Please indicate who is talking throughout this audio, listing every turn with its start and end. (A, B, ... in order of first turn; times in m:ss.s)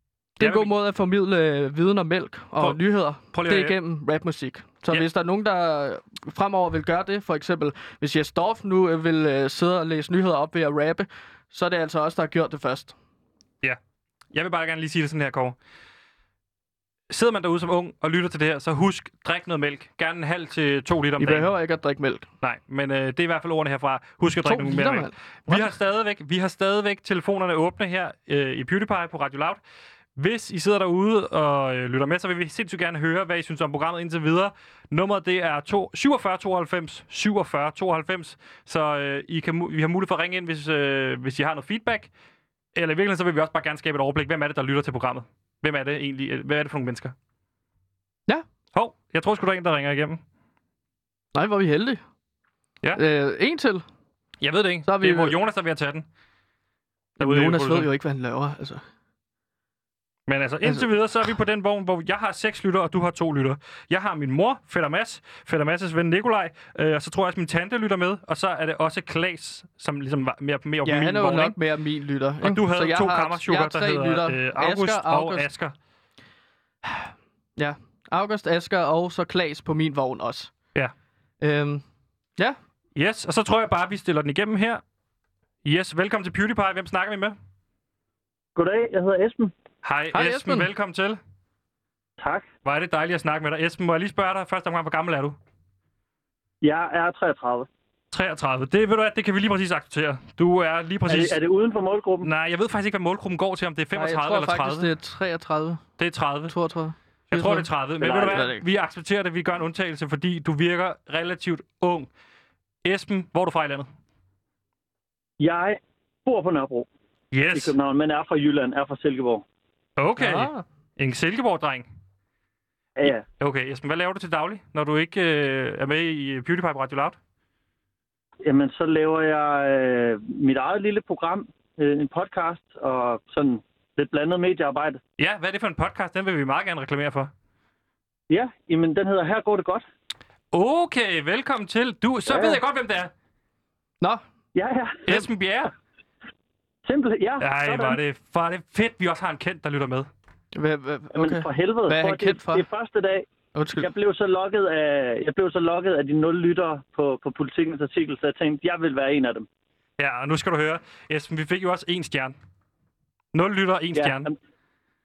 0:00.4-0:00.7 A
0:00.4-0:13.0 B
0:03.3-0:03.8 A
0:14.3-0:15.6 A
0:17.1-0:21.5 A
0:21.2-0:22.3 B
0:22.4-0:29.6 A
0:24.4-0:25.7 B
0:30.2-0:42.1 A
0:42.8-0:47.1 A
0:48.7-0:50.2 A
0:51.3-0:52.0 B
0:53.0-0:53.8 B
0:54.4-0:56.0 A
0:54.8-0:55.4 B
0:57.2-0:57.9 A
0:57.2-0:58.8 B
1:00.3-1:11.6 A
1:10.8-1:15.5 B
1:12.4-1:15.7 A
1:16.8-1:20.5 B
1:21.4-1:21.8 B
1:23.0-1:24.8 A
1:25.6-1:27.4 A
1:28.6-1:29.5 C
1:29.8-1:31.2 A
1:30.1-1:30.7 B
1:32.2-1:32.5 C
1:32.6-1:35.4 A
1:36.6-1:37.7 C
1:38.1-1:41.4 A
1:41.1-1:42.3 C
1:42.2-1:44.9 A
1:43.9-1:45.8 B
1:46.0-1:46.5 A
1:46.5-1:47.7 B
1:47.3-1:52.1 A
1:48.0-1:48.5 C
1:48.2-1:48.6 B
1:52.8-1:53.9 A
1:55.4-1:56.9 C
1:57.3-1:57.7 A
1:57.5-1:59.4 C
2:00.0-2:01.9 A
2:00.2-2:00.6 B
2:03.0-2:03.2 C
2:03.0-2:07.2 A
2:08.4-2:15.0 C
2:15.2-2:17.3 A
2:18.3-2:19.8 C
2:20.5-2:23.1 A
2:22.3-2:22.6 C
2:24.6-2:25.2 C
2:25.1-2:25.7 A
2:26.8-2:28.0 C
2:27.4-2:30.1 A
2:30.5-2:32.6 B
2:31.1-2:33.3 C
2:33.6-2:33.9 B
2:33.8-2:39.5 C
2:40.0-2:42.4 A
2:43.3-2:44.3 A
2:43.9-2:44.4 C